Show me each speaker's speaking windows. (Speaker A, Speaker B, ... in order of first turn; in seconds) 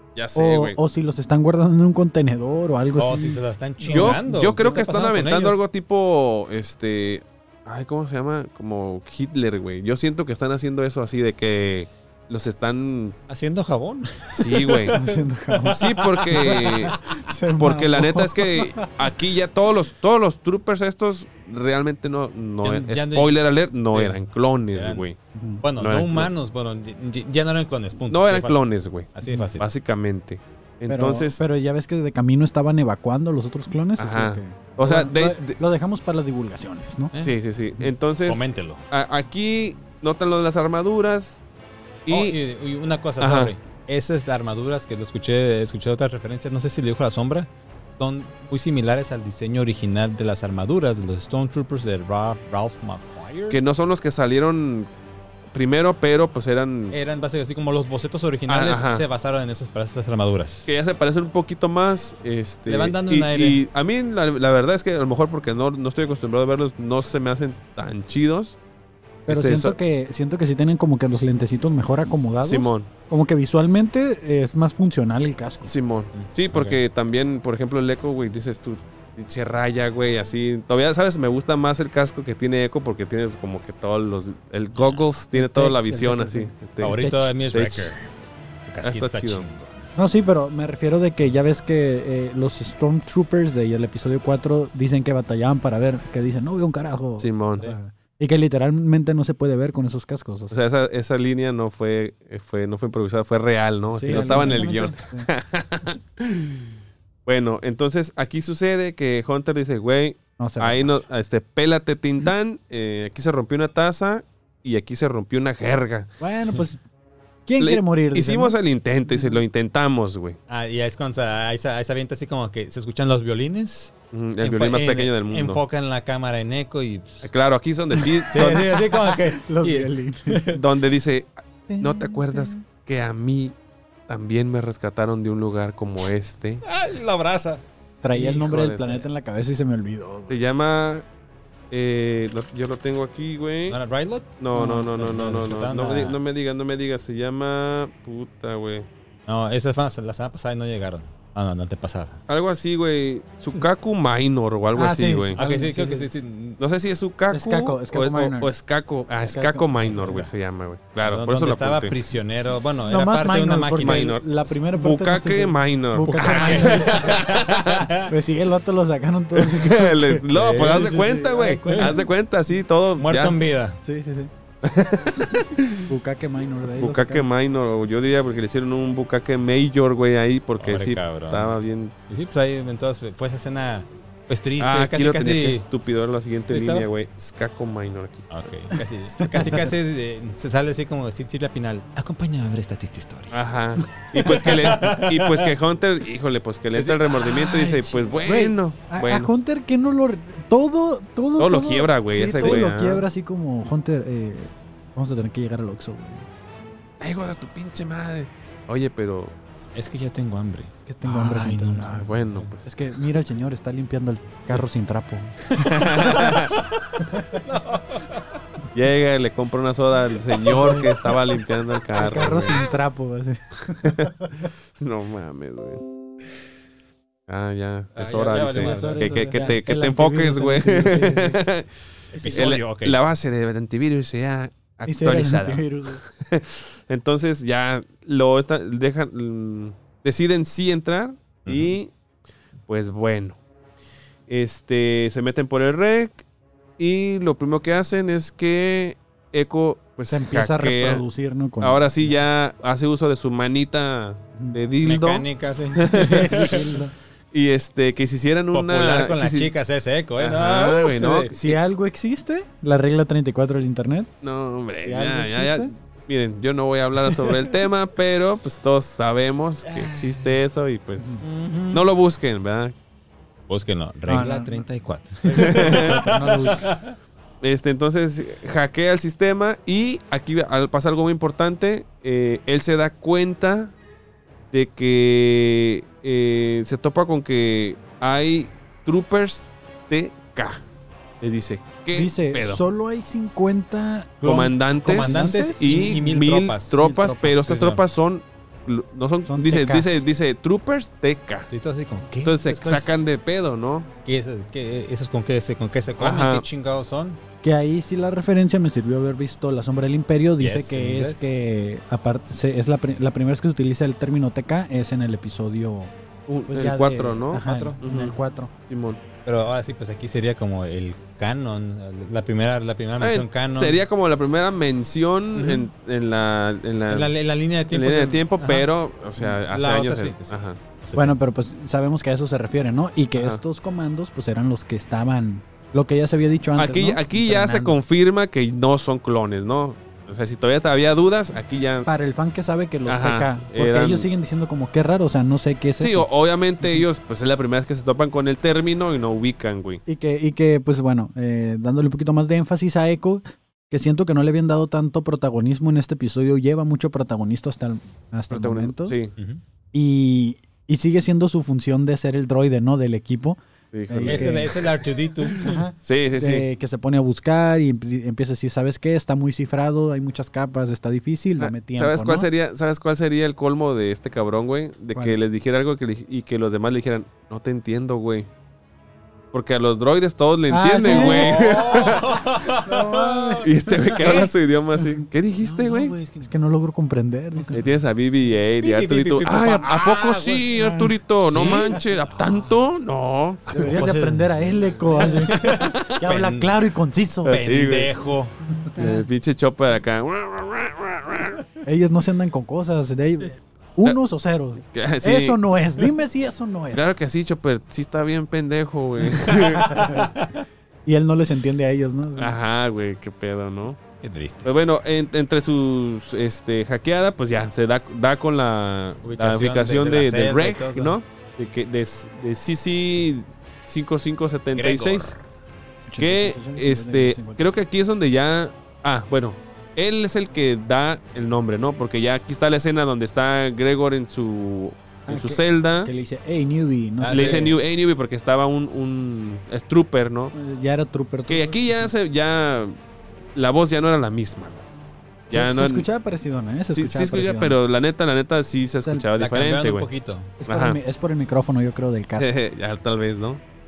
Speaker A: 0.2-0.8, 3.9-13.2, 14.3-15.0, 15.7-17.0, 17.6-25.2, 25.8-26.3, 28.1-31.4, 34.0-35.6, 37.2-41.4, 42.1-42.4, 43.2-43.5, 53.5-54.9, 55.5-57.0, 58.5-59.0, 60.7-68.6, 69.3-69.8, 72.4-72.9, 75.7-87.9, 88.8-89.5, 97.2-97.7, 100.5-106.7, 107.3-116.1, 117.6-120.4, 124.1-125.6, 127.2-128.7, 130.5-133.6, 134.1-136.6, 138.1-139.1, 140.3-141.1, 141.7-143.8, 144.4-148.9, 152.3-155.4, 156.6-161.9, 163.8-167.9, 169.3-173.4, 174.6-175.9, 176.8-181.9, 184.6-188.5, 193.3-199.3, 201.4-203.1, 207.0-209.3, 211.9-212.7, 215.6-216.6, 218.7-222.7, 223.8-224.1, 224.8-225.8, 227.3-231.7, 232.3-241.9, 242.7-243.4, 244.3-246.2, 246.8-251.0, 251.6-256.7, 257.3-259.5, 260.2-261.5, 264.2-272.8, 275.4-276.0, 277.4-283.7, 284.5-290.6, 291.2-292.6, 294.2-301.5, 302.2-303.9, 306.0-306.4, 316.3-318.2, 318.7-319.0, 323.0-327.1, 327.7-330.6, 333.2-333.4, 336.6-341.9, 342.9-344.1, 345.8-349.8, 358.3-359.1, 363.7-364.6, 365.8-366.5, 371.4-378.3, 379.3-382.3, 383.4-385.9, 387.5-393.8, 395.4-395.8, 397.2-397.9, 398.8-401.4, 404.7-405.8, 406.7-410.0, 412.2-413.8, 414.4-425.2, 426.0-435.9, 437.1-440.3, 441.3-442.8, 443.3-444.7, 445.3-445.9, 446.7-449.9, 450.5-450.8, 452.2-453.4
Speaker B: 0.3-4.2, 14.9-18.9, 25.4-25.6, 30.9-37.1, 69.3-75.7, 85.3-87.3, 90.0-100.5, 103.9-105.3, 110.4-111.0, 116.2-116.8, 117.5-118.6, 119.1-119.4, 128.0-130.6, 131.7-132.6, 138.0-140.4, 144.5-144.9, 154.8-156.1, 157.3-158.5, 159.2-160.2, 162.9-167.3, 168.0-172.1, 173.8-174.3, 175.8-177.3, 189.2-189.7, 198.2-206.3, 210.9-212.1, 212.6-216.4, 217.0-217.4, 220.5-221.0, 221.9-224.5, 228.6-231.4, 232.2-232.5, 234.9-236.0, 250.1-251.9, 255.9-256.9, 261.3-264.1, 264.8-265.7, 271.0-271.2, 274.1-274.7, 275.3-276.7, 291.9-295.9, 296.8-297.4, 299.3-300.1, 307.4-315.9, 316.5-318.5, 331.0-337.8, 341.9-346.1, 349.9-359.0, 359.7-364.7, 365.3-372.3, 380.5-382.0, 382.5-384.2, 386.2-387.6, 393.5-397.7, 401.6-406.8, 409.7-410.1, 410.9-412.4, 425.9-427.5, 435.1-437.6, 440.3-441.9, 445.3-447.6, 450.4-452.3
Speaker C: 3.0-5.7, 13.3-17.0, 22.6-24.2, 24.7-25.1, 25.6-28.6, 29.1-29.7, 38.3-38.9, 42.1-53.6, 56.9-60.7, 62.7-63.6, 76.1-76.8, 86.8-88.1, 88.7-89.8, 104.0-104.8, 120.5-127.3, 128.3-130.6, 136.6-137.6, 143.7-144.4, 144.9-146.2, 149.3-152.2, 155.4-156.6, 159.9-160.3, 161.0-164.2, 166.0-168.1, 170.3-170.9, 171.7-171.9, 173.0-173.8, 180.6-181.6, 182.1-185.7, 186.5-186.9, 188.3-193.3, 194.2-195.5, 196.8-198.3, 209.8-212.5, 215.6-218.4, 227.9-229.6, 232.1-233.0, 241.4-241.8, 254.8-256.7, 258.5-261.4, 269.6-270.4, 271.2-271.8, 273.5-276.9, 294.2-297.8, 301.5-302.9, 304.1-307.2, 310.4-311.3, 317.5-317.8, 319.2-323.8, 325.4-325.7, 326.9-328.7, 329.4-331.2, 364.1-365.6, 380.8-384.3, 385.4-386.3, 387.3-387.7, 388.6-392.6, 393.6-396.6, 397.3-398.9, 409.7-410.3, 414.0-414.5, 419.0-420.9, 424.5-425.2, 437.0-437.5, 449.1-450.3